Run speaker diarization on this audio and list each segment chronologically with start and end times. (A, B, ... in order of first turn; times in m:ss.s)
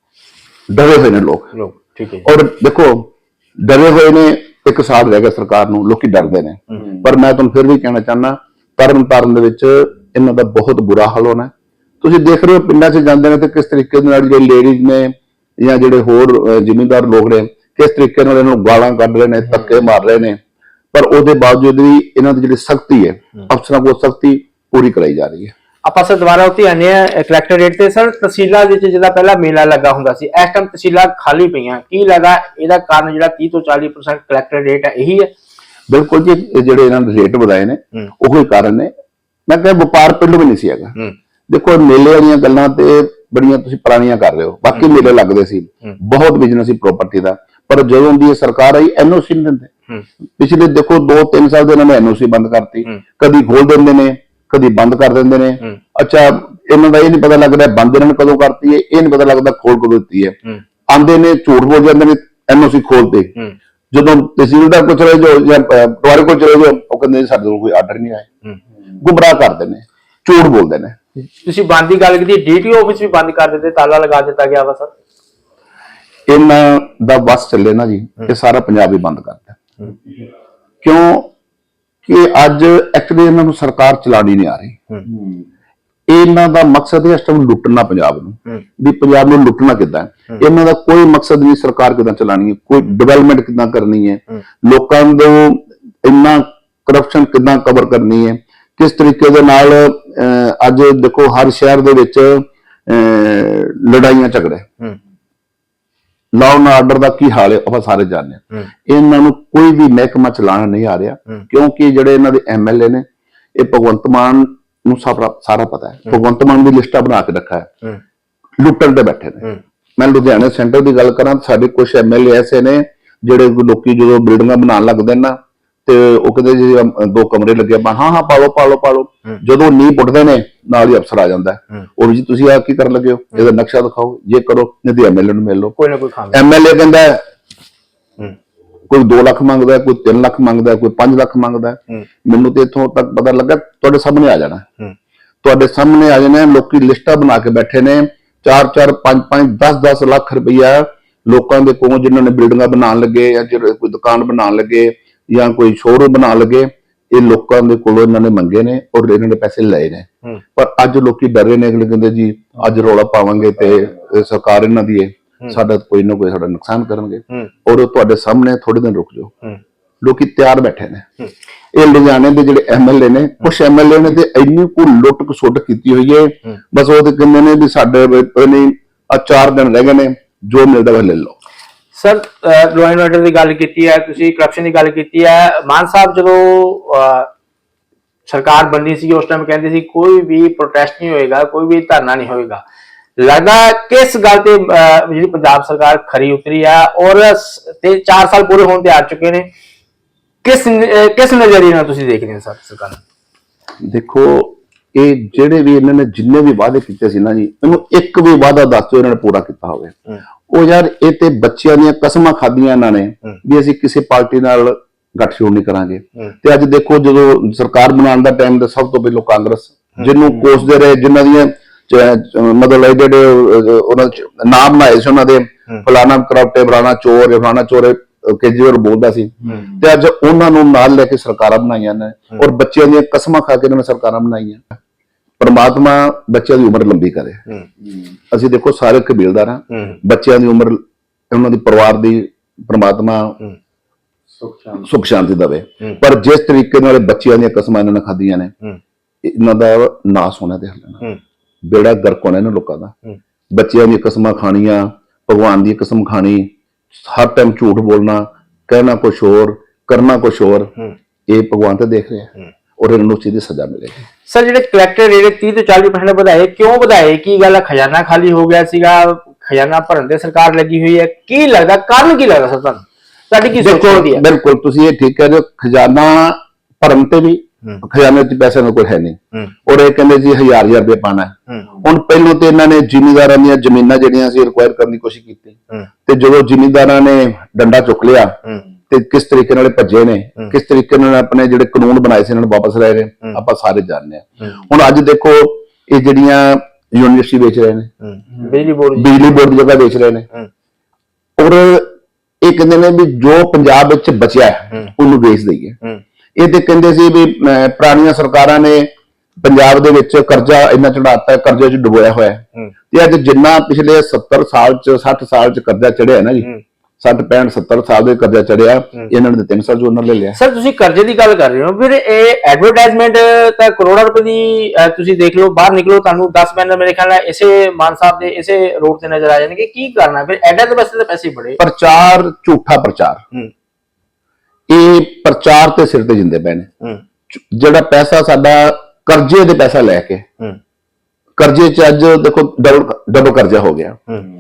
0:00.7-0:01.5 A
0:01.5-0:02.3 B
0:02.2-0:20.4 A
0:20.9-0:25.5 A
0:25.8-0:35.3 B
0:35.9-0:38.9 A
0:39.5-0:49.7 A
0:50.4-1:00.4 A
1:00.9-1:03.4 A
1:03.9-1:08.3 A
1:08.9-1:11.0 A
1:11.4-1:14.9 B
1:16.3-1:19.6 A
1:20.8-1:21.3 A
1:22.0-1:24.8 A
1:26.1-1:44.7 A
1:46.3-1:53.0 A
1:53.6-1:57.7 A
1:58.6-2:15.8 A
2:15.8-2:16.4 B
2:16.3-2:17.2 A
2:18.9-2:24.7 A
2:25.4-2:49.3 A
2:50.0-2:51.1 A
2:51.7-3:01.4 A
3:01.9-3:07.3 B
3:08.3-3:12.6 B
3:13.2-3:19.5 B
3:20.4-3:23.0 B
3:23.8-3:30.0 A
3:30.5-3:54.6 A
3:55.4-3:57.5 A
3:58.3-4:03.4 A
4:04.7-4:08.5 A
4:09.2-4:11.0 A
4:11.6-4:12.9 A
4:13.5-4:20.8 A
4:21.3-4:24.0 A
4:24.3-4:34.2 B
4:33.6-4:57.9 A
4:58.0-4:59.4 B
4:59.0-5:00.3 A
5:01.4-5:05.8 A
5:06.4-5:08.9 A
5:09.4-5:20.4 A
5:20.3-5:31.6 B
5:31.6-5:33.2 A
5:34.7-5:36.7 A
5:37.3-5:40.3 A
5:41.4-5:44.0 A